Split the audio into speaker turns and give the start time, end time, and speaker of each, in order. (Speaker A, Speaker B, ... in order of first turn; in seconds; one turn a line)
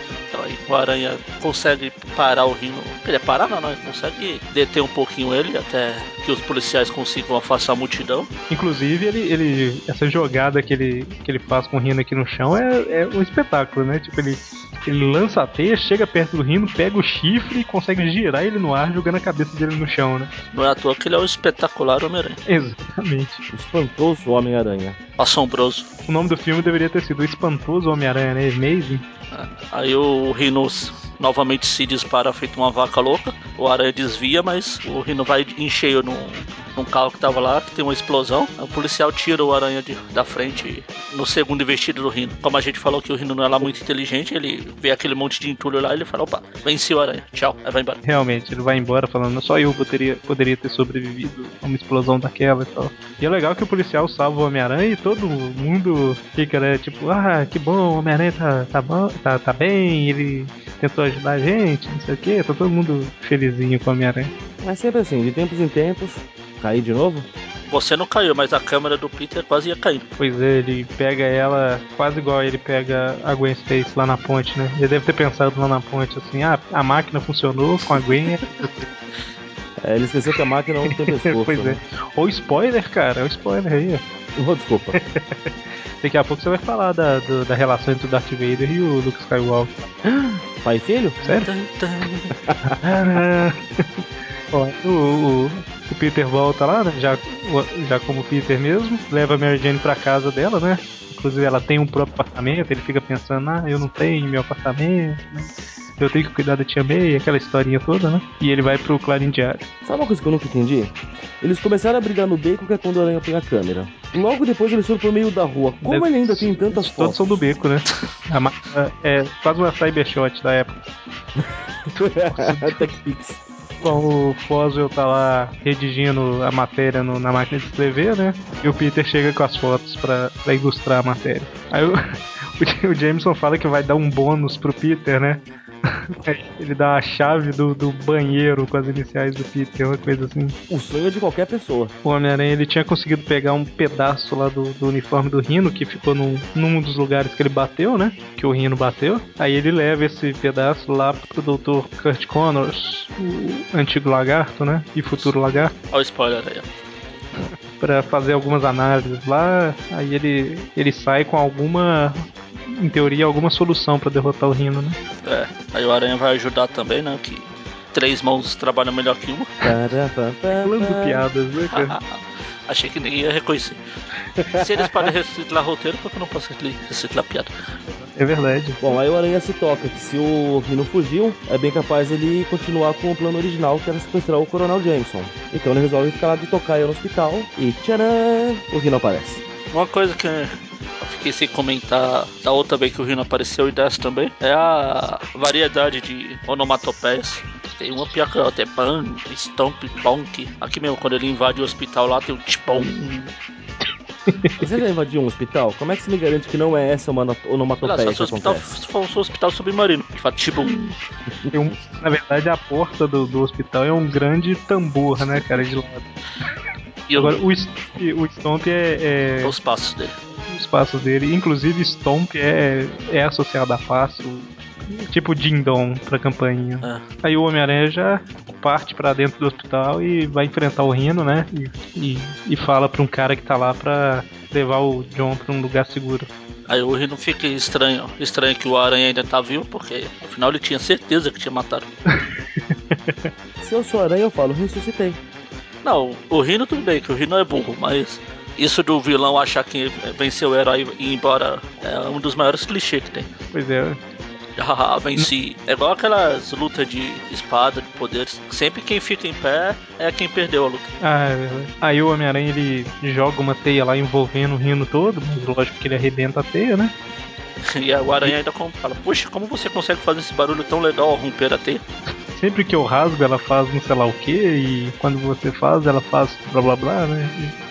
Speaker A: 0.3-8.3
Speaker B: 8.5-20.3
Speaker A: 20.5-22.4
Speaker B: 22.5-23.4
Speaker C: 23.5-25.0
Speaker A: 25.2-25.9
Speaker B: 26.1-29.0
Speaker A: 29.3-48.0
Speaker B: 48.0-64.3
Speaker C: 64.6-67.3
Speaker A: 67.7-70.0
Speaker B: 70.2-78.9
Speaker C: 79.8-81.8
Speaker B: 80.9-84.0
Speaker C: 84.3-85.0
Speaker B: 84.9-90.4
Speaker C: 90.6-91.2
Speaker A: 91.2-92.3
Speaker B: 91.2-91.5
Speaker C: 92.5-92.7
Speaker B: 92.7-109.7
Speaker C: 109.8-117.3
Speaker B: 115.8-120.8
Speaker C: 121.4-123.4
Speaker B: 121.9-123.0
Speaker B: 123.8-140.6
Speaker C: 140.7-141.9
Speaker B: 142.0-155.7
Speaker A: 155.1-156.7
Speaker B: 157.8-165.0
Speaker A: 165.2-169.6
Speaker C: 169.6-171.2
Speaker B: 170.6-172.0
Speaker A: 171.7-173.8
Speaker A: 174.5-177.5
Speaker B: 178.1-178.9
Speaker C: 178.8-189.4
Speaker A: 189.7-203.3
Speaker B: 204.3-204.7
Speaker C: 204.6-208.7
Speaker A: 207.8-210.9
Speaker B: 211.5-216.1
Speaker A: 217.1-217.4
Speaker B: 217.2-219.5
Speaker A: 219.4-220.2
Speaker B: 220.5-236.3
Speaker A: 236.7-241.9
Speaker B: 242.9-243.2
Speaker C: 243.6-245.2
Speaker A: 245.8-253.3
Speaker B: 253.5-254.0
Speaker A: 254.6-260.9
Speaker B: 261.0-266.9
Speaker A: 267.6-271.8
Speaker B: 272.3-277.5